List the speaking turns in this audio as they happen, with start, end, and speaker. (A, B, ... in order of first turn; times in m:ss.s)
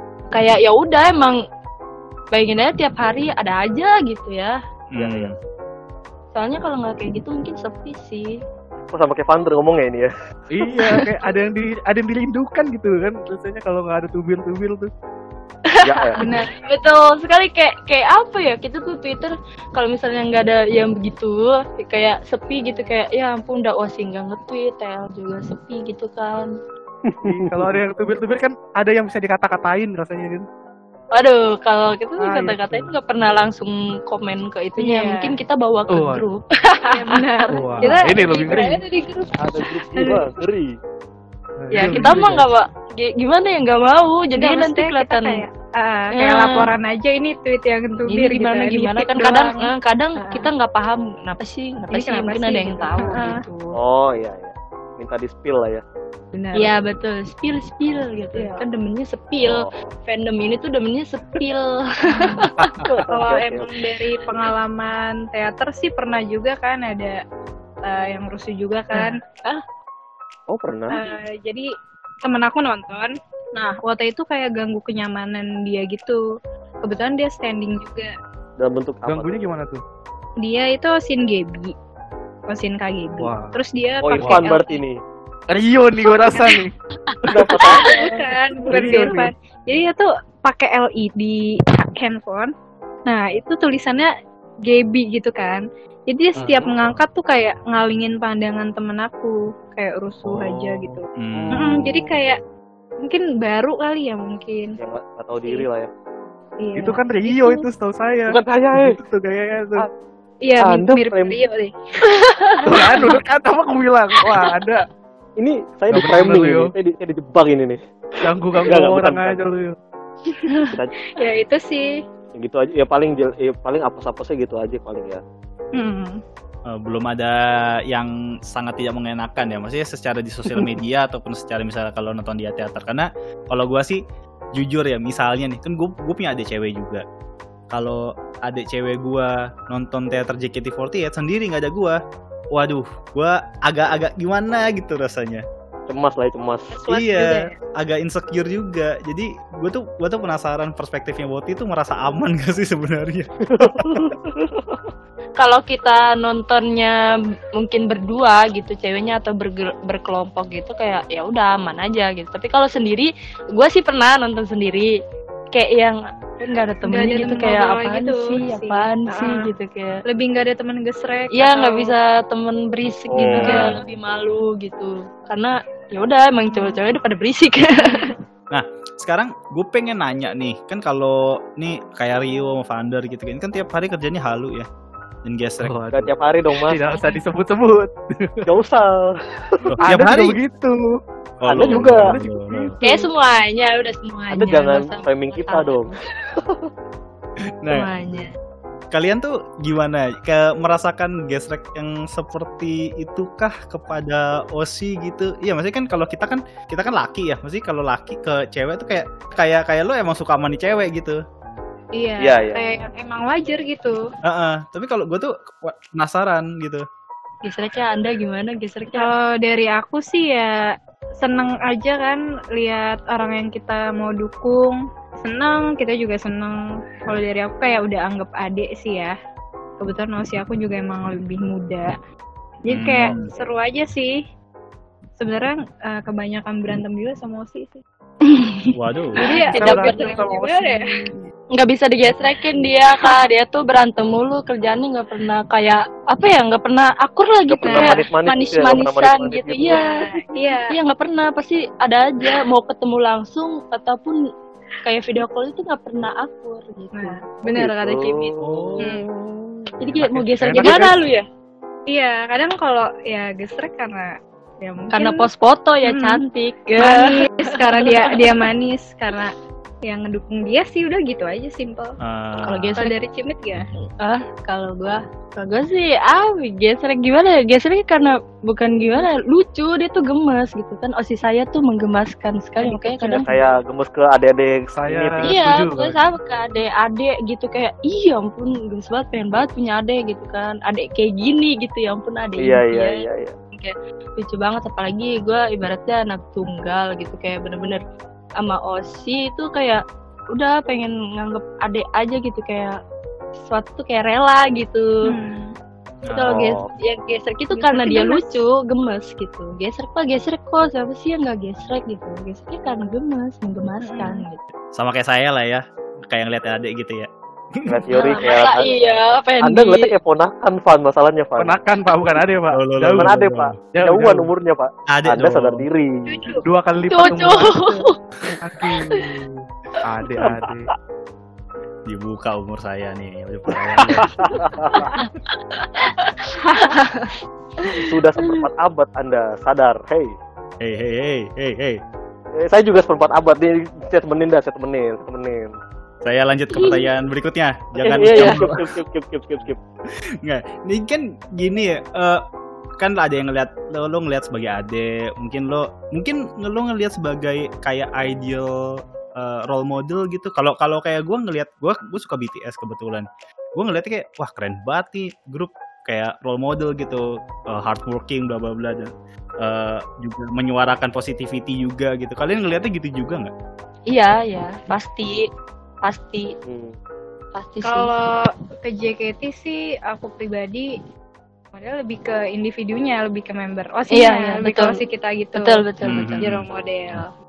0:00.3-0:01.4 A
0:02.3-0:04.6 A
0:04.9-0:05.4 B
0:05.0-0:05.4 C
0:06.3-0:08.4 A
0:08.9-0:10.1 C
0:10.5-0:14.9 D
0:15.7-0:26.5 A
0:15.8-0:16.2 C
0:16.2-0:16.5 E
0:27.1-0:27.8 C
0:27.2-0:30.4 D
0:31.1-0:38.6 A
0:32.2-0:32.9 D
0:34.8-0:35.4 E
0:35.9-0:36.3 D
0:36.9-0:40.2 E
0:37.5-0:38.8 D
0:39.4-0:40.7 C
0:41.6-0:42.4 D
0:41.7-0:45.4 A
0:41.9-0:42.2 E
0:44.4-0:49.7 E
0:46.1-0:46.7 A
0:48.1-0:53.8 A
0:50.2-0:50.5 E
0:51.9-0:53.4 E
0:53.8-0:55.8 C
0:56.3-0:56.7 E
0:56.6-1:02.8 A
0:58.4-0:58.6 E
0:59.4-0:59.9 C
1:02.1-1:02.5 E
1:02.8-1:03.7 C
1:03.1-1:07.2 E
1:07.8-1:09.2 E
1:08.9-1:09.6 A
1:10.5-1:11.0 C
1:10.9-1:11.7 E
1:12.2-1:16.2 E
1:16.8-1:18.1 E
1:18.6-1:19.4 C
1:19.1-1:19.8 D
1:20.4-1:21.7 E
1:22.5-1:24.8 E
1:23.2-1:23.6 D
1:24.0-1:25.0 C
1:24.2-1:24.5 D
1:25.5-1:26.7 D
1:26.3-1:26.6 E
1:27.2-1:27.5 D
1:27.3-1:29.1 C
1:27.5-1:32.5 E
1:28.7-1:29.3 D
1:33.1-1:34.1 E
1:34.7-1:41.0 E
1:41.2-1:41.8 B
1:41.4-1:42.0 C
1:41.5-1:42.4 E
1:43.0-1:44.8 E
1:44.8-1:45.9 C
1:46.6-1:47.6 E
1:46.8-1:49.9 D
1:48.3-1:49.0 C
1:50.4-1:53.1 E
1:50.6-1:51.4 C
1:52.6-1:54.9 D
1:55.4-1:57.8 C
1:55.9-1:56.7 D
1:58.2-1:59.8 D
1:58.6-1:59.4 C
2:00.7-2:01.0 C
2:01.2-2:01.9 E
2:02.4-2:05.2 C
2:05.8-2:06.2 E
2:06.7-2:07.4 B
2:07.9-2:14.0 B
2:14.6-2:17.0 B
2:17.7-2:22.0 B
2:22.5-2:25.4 B
2:25.9-2:26.8 C
2:26.7-2:27.5 E
2:26.9-2:34.2 B
2:33.5-2:34.9 C
2:35.4-2:37.0 A
2:37.6-2:44.9 A
2:45.5-2:50.0 A
2:46.8-2:49.4 E
2:50.1-2:51.9 E
2:51.3-2:58.2 A
2:53.1-2:53.7 C
2:53.3-2:53.7 E
2:53.4-2:53.7 B
2:56.5-2:56.8 E
2:57.8-2:58.1 E
2:58.5-3:04.7 B
3:05.2-3:05.8 B
3:05.6-3:08.5 D
3:05.9-3:06.9 C
3:08.5-3:09.8 C
3:09.7-3:10.4 B
3:09.8-3:10.8 D
3:11.4-3:12.8 B
3:11.5-3:12.1 C
3:11.6-3:12.8 D
3:12.8-3:15.9 A
3:14.3-3:16.7 C
3:17.7-3:18.3 A
3:18.9-3:31.2 B
3:32.0-3:34.0 E
3:32.2-3:32.6 C
3:34.3-3:36.8 B
3:37.4-3:39.1 A
3:39.0-3:40.6 E
3:41.2-3:49.1 E
3:49.8-3:51.9 E
3:52.6-3:54.2 E
3:52.7-3:53.3 B
3:55.2-3:57.8 E
3:58.3-4:00.5 A
3:58.8-3:59.2 B
3:59.2-4:00.8 E
3:59.3-4:01.1 D
4:01.6-4:09.9 A
4:07.5-4:09.8 C
4:07.7-4:08.0 E
4:09.7-4:10.7 E
4:10.7-4:14.2 A
4:14.8-4:18.4 A
4:17.0-4:17.2 E
4:17.5-4:19.7 C
4:18.4-4:18.9 B
4:19.8-4:21.2 A
4:19.9-4:20.9 D
4:21.9-4:25.3 E
4:24.9-4:28.4 A
4:25.8-4:26.2 E
4:26.8-4:29.3 E
4:29.8-4:32.0 E
4:32.0-4:32.8 B
4:32.4-4:32.9 A
4:32.8-4:33.6 E
4:34.0-4:43.3 A
4:42.6-4:43.6 E
4:43.2-4:45.3 C
4:44.7-4:46.0 D
4:45.2-4:53.0 A
4:52.4-4:53.3 C
4:53.6-4:57.8 A
4:58.4-4:59.8 A
5:00.3-5:02.8 A
5:03.5-5:04.9 A
5:05.1-5:05.5 E
5:06.1-5:06.5 B
5:06.1-5:14.4 A
5:06.3-5:06.6 C
5:07.6-5:08.4 E
5:13.8-5:14.2 E
5:14.8-5:17.1 B
5:17.7-5:21.6 C
5:17.9-5:19.9 A
5:21.4-5:24.3 D
5:22.5-5:23.5 B
5:23.0-5:26.2 C
5:24.9-5:25.7 B
5:26.1-5:26.4 E
5:26.4-5:27.8 D
5:26.9-5:27.9 A
5:28.4-5:30.7 D
5:31.9-5:34.1 B
5:33.8-5:34.0 D
5:34.2-5:34.9 C
5:34.8-5:38.4 A
5:37.8-5:40.1 C
5:40.6-5:41.8 B
5:42.4-5:45.5 C
5:46.0-5:48.7 B
5:46.6-5:46.8 A
5:47.8-5:49.6 C
5:50.2-5:52.2 B
5:52.8-5:58.5 B
5:59.2-6:08.9 B
6:09.4-6:13.3 B
6:13.9-6:15.2 A
6:15.8-6:16.3 A
6:16.5-6:16.7 C
6:17.4-6:17.9 A
6:17.6-6:20.7 E
6:21.6-6:27.1 E
6:23.9-6:24.8 A
6:25.4-6:26.3 A
6:25.9-6:26.5 B